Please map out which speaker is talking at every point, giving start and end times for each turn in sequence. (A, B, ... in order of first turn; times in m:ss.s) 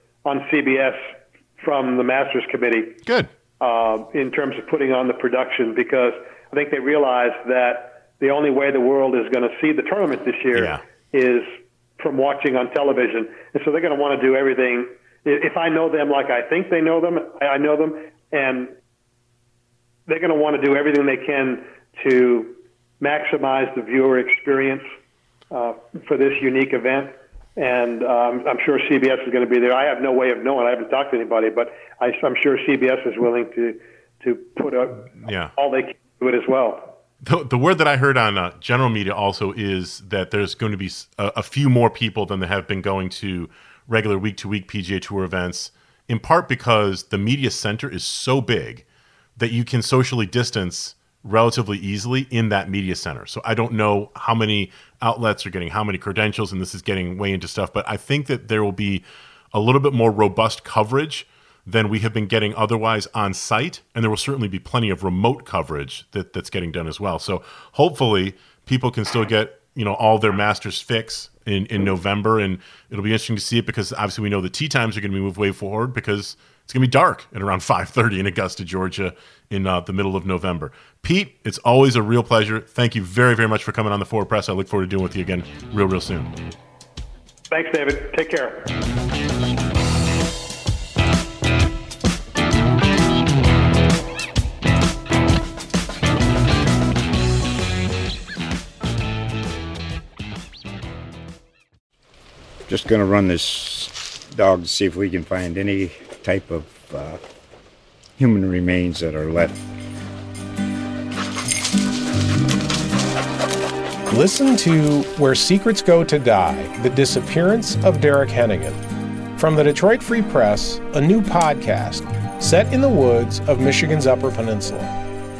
0:00.2-0:03.0 A
0:03.6-0:18.7 A
0:10.5-0:10.8 B
0:20.1-0:24.9 A
0:25.5-0:37.0 A
0:35.2-0:35.5 B
0:37.2-0:48.8 B
0:49.4-1:26.3 B
1:27.5-1:28.7 A
1:42.7-1:47.2 C
1:48.2-1:49.7 C
1:54.1-1:58.8 D
1:59.4-2:05.0 D